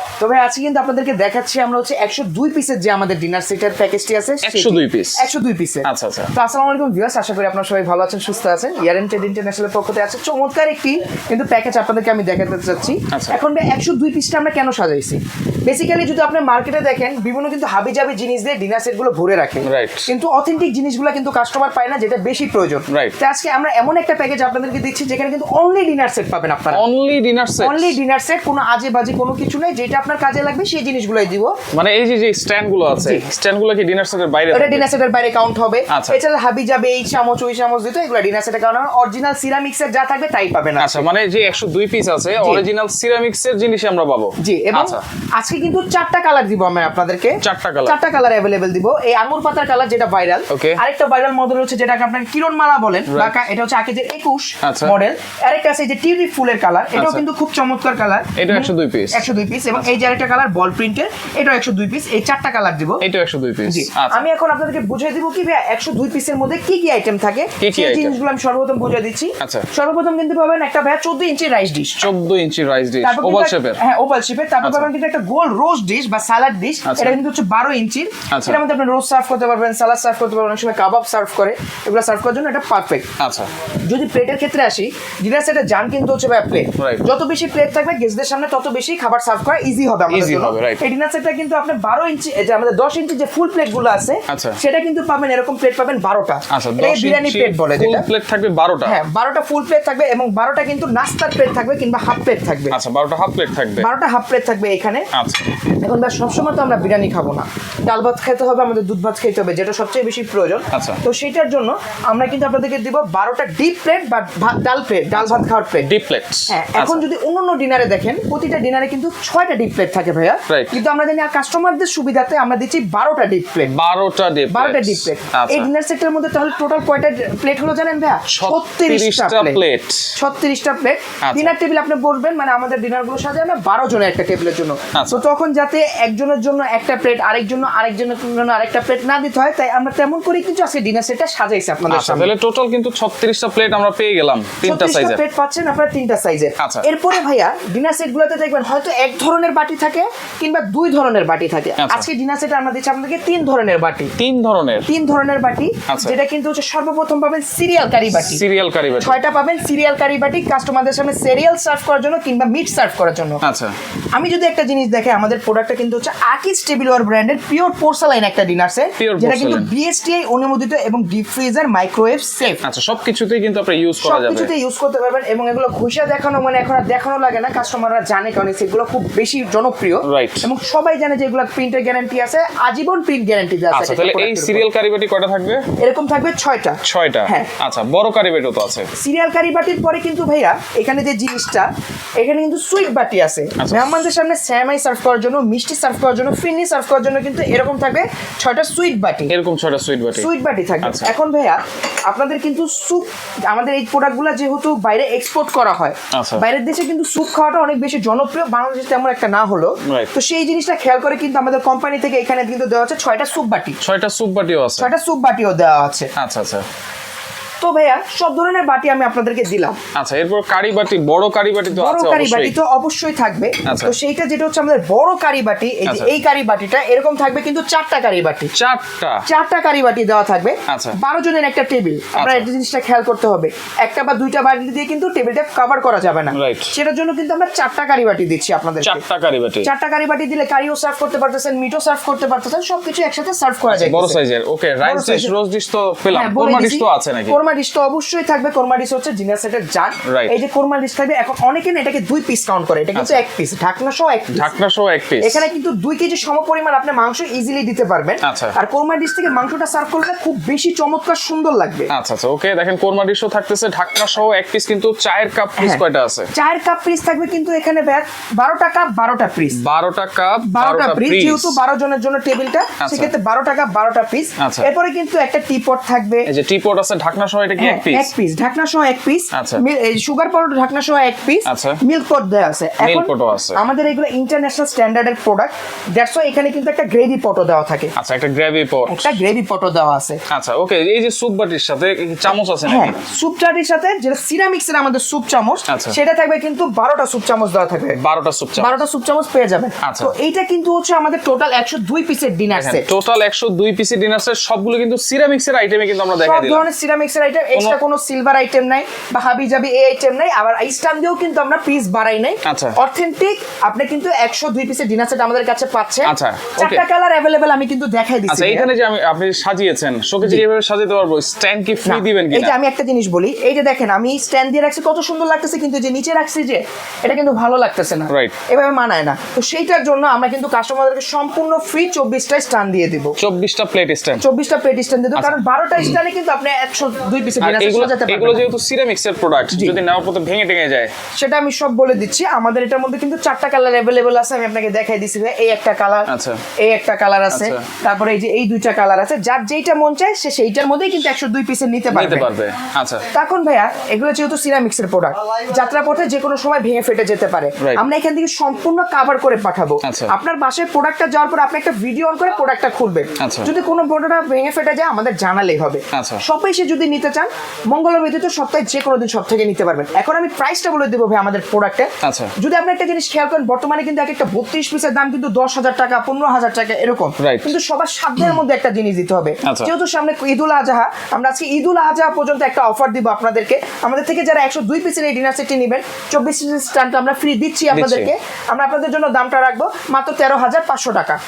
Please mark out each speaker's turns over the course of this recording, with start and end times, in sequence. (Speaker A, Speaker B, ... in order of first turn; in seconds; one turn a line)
Speaker A: 0.2-26.8
Speaker B: 4.4-5.3
Speaker B: 5.8-6.3
Speaker B: 13.1-13.4
Speaker B: 19.6-20.1
Speaker B: 22.9-23.2
Speaker B: 26.7-28.0
Speaker A: 27.6-31.5
Speaker B: 31.7-34.9
Speaker A: 33.0-33.2
Speaker A: 34.5-41.0
Speaker B: 35.9-36.2
Speaker B: 40.8-45.0
Speaker A: 44.4-63.0
Speaker B: 47.4-48.0
Speaker B: 50.5-50.8
Speaker B: 53.1-53.4
Speaker B: 54.6-55.0
Speaker B: 56.9-57.2
Speaker B: 58.4-60.0
Speaker B: 63.0-64.2
Speaker A: 63.7-72.0
Speaker B: 67.6-68.2
Speaker B: 69.4-69.7
Speaker B: 72.0-73.8
Speaker A: 73.0-83.1
Speaker B: 74.6-74.9
Speaker B: 76.8-77.2
Speaker B: 78.3-78.6
Speaker B: 83.2-83.5
Speaker A: 83.9-98.1
Speaker B: 86.8-87.1
Speaker B: 90.1-90.8
Speaker B: 94.3-94.6
Speaker B: 96.5-99.0
Speaker A: 98.8-102.8
Speaker B: 102.7-103.9
Speaker A: 103.8-105.1
Speaker B: 105.1-105.5
Speaker A: 105.7-115.9
Speaker B: 110.7-111.0
Speaker B: 115.2-117.0
Speaker A: 116.5-123.8
Speaker B: 120.5-120.8
Speaker B: 123.7-125.7
Speaker A: 124.5-129.6
Speaker B: 128.3-130.1
Speaker A: 130.2-142.3
Speaker B: 131.2-131.5
Speaker B: 134.9-135.2
Speaker B: 141.9-145.2
Speaker A: 144.6-154.1
Speaker B: 146.6-146.9
Speaker B: 151.8-152.1
Speaker B: 154.2-154.9
Speaker A: 154.9-158.4
Speaker B: 155.9-156.2
Speaker B: 158.1-159.2
Speaker A: 159.0-163.4
Speaker B: 163.4-163.7
Speaker A: 164.2-172.6
Speaker B: 169.0-169.7
Speaker B: 172.6-174.5
Speaker A: 174.0-184.7
Speaker B: 180.0-180.5
Speaker B: 183.7-185.7
Speaker A: 185.8-187.5
Speaker B: 186.8-188.9
Speaker A: 189.0-199.3
Speaker B: 193.6-194.0
Speaker B: 199.3-200.3
Speaker A: 200.2-213.8
Speaker B: 200.8-201.1
Speaker B: 206.1-206.4
Speaker B: 209.8-210.1
Speaker B: 213.8-214.9
Speaker A: 214.8-216.1
Speaker B: 216.2-216.6
Speaker A: 217.6-219.8
Speaker B: 219.9-222.5
Speaker A: 221.7-228.5
Speaker B: 223.7-223.9
Speaker B: 225.8-226.1
Speaker B: 228.5-229.2
Speaker A: 229.3-239.0
Speaker B: 230.7-231.0
Speaker B: 232.2-232.5
Speaker B: 236.3-236.7
Speaker B: 238.8-239.7
Speaker A: 239.6-244.2
Speaker B: 243.7-247.4
Speaker A: 244.8-245.3
Speaker A: 246.1-254.5
Speaker B: 250.1-250.3
Speaker B: 252.9-253.2
Speaker B: 254.3-255.5
Speaker A: 255.2-261.9
Speaker B: 258.2-258.6
Speaker B: 261.9-266.3
Speaker A: 266.3-269.6
Speaker B: 269.5-271.6
Speaker A: 270.5-276.3
Speaker B: 272.8-273.1
Speaker B: 274.4-274.7
Speaker B: 276.2-278.1
Speaker A: 277.6-287.9
Speaker B: 279.3-279.6
Speaker B: 281.5-281.8
Speaker B: 282.8-283.6
Speaker B: 288.0-289.1
Speaker A: 288.9-290.2
Speaker B: 290.3-293.0
Speaker A: 292.6-298.0
Speaker B: 295.7-296.0
Speaker B: 297.9-298.8
Speaker A: 298.6-302.9
Speaker B: 299.8-300.1
Speaker B: 302.5-306.7
Speaker A: 306.2-318.7
Speaker B: 307.5-307.8
Speaker B: 312.4-312.8
Speaker B: 316.0-316.9
Speaker B: 318.3-322.6
Speaker A: 321.9-333.1
Speaker B: 328.1-328.4
Speaker B: 333.2-334.2
Speaker A: 334.2-338.4
Speaker B: 335.1-336.0
Speaker B: 337.4-340.9
Speaker A: 339.5-339.8
Speaker A: 341.2-346.1
Speaker B: 346.1-346.4
Speaker A: 346.6-352.3
Speaker B: 347.3-347.6
Speaker B: 351.9-353.0
Speaker A: 353.1-391.2
Speaker B: 359.8-360.1
Speaker B: 363.2-363.5
Speaker B: 365.9-366.2
Speaker B: 372.0-372.3
Speaker B: 377.2-377.5
Speaker B: 379.4-379.7
Speaker B: 387.7-388.1